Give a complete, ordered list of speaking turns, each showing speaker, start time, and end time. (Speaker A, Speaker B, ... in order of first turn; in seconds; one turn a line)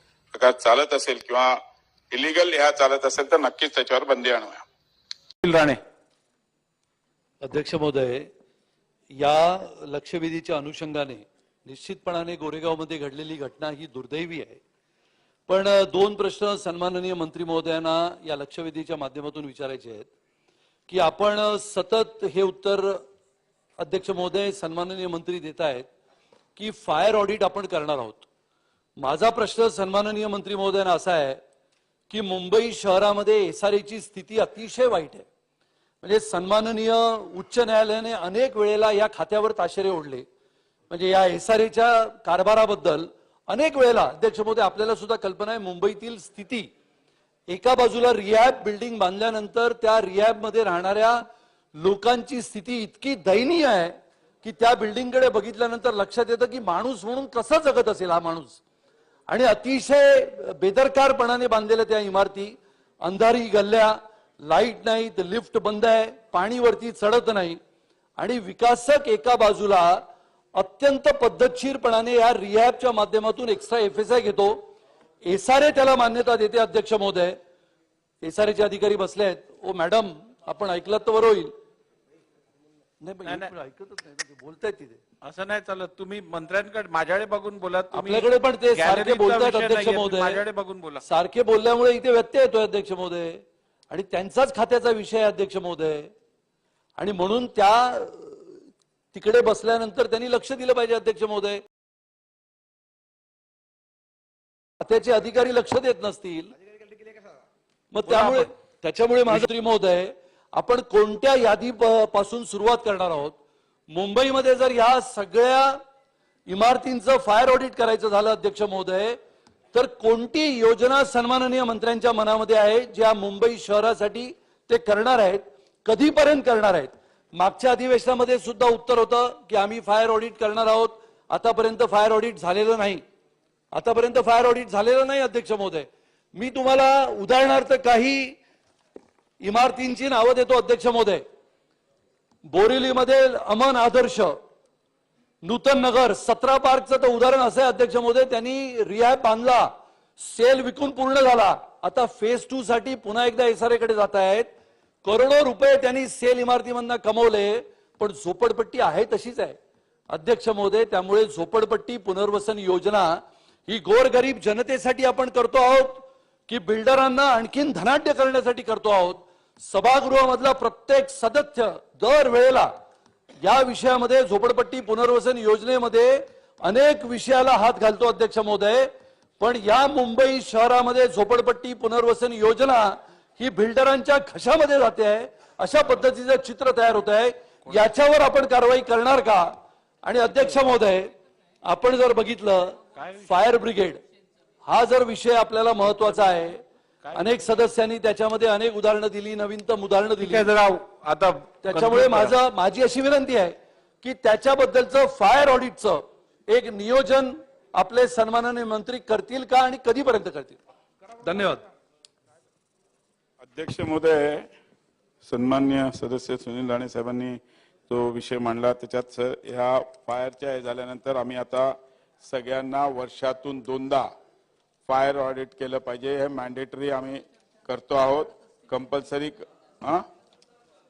Speaker A: 0.3-1.5
Speaker A: 2.1-4.6
Speaker B: 5.4-5.8
Speaker C: 7.4-8.3
Speaker C: 9.1-14.6
Speaker C: 15.5-20.1
Speaker C: 20.9-23.0
Speaker C: 23.8-25.9
Speaker C: 26.6-28.3
Speaker C: 29.0-31.4
Speaker C: 32.1-35.3
Speaker C: 36.0-40.2
Speaker C: 40.9-46.7
Speaker C: 47.5-51.2
Speaker C: 51.8-58.6
Speaker C: 59.3-67.6
Speaker C: 68.2-70.0
Speaker C: 70.5-74.7
Speaker C: 75.2-77.4
Speaker C: 78.2-81.5
Speaker C: 83.0-85.0
Speaker B: 85.2-91.0
Speaker C: 87.9-90.4
Speaker C: 91.0-96.1
Speaker C: 97.0-98.6
Speaker C: 99.1-101.6
Speaker C: 104.8-106.5
Speaker C: 107.9-113.4
Speaker B: 108.0-108.5
Speaker C: 113.9-115.8
Speaker C: 116.5-119.2
Speaker C: 119.7-133.0
Speaker C: 133.7-138.4
Speaker C: 139.4-141.2
Speaker C: 142.5-144.4
Speaker C: 145.4-154.5
Speaker C: 155.0-159.6
Speaker C: 160.1-172.7
Speaker C: 173.4-191.1
Speaker C: 191.6-194.0
Speaker B: 192.9-193.3
Speaker C: 194.6-196.6
Speaker C: 197.1-200.5
Speaker B: 200.2-202.3
Speaker C: 201.6-210.6
Speaker C: 211.2-211.6
Speaker A: 213.4-214.5
Speaker A: 215.2-221.7
Speaker A: 222.2-224.1
Speaker A: 224.8-230.0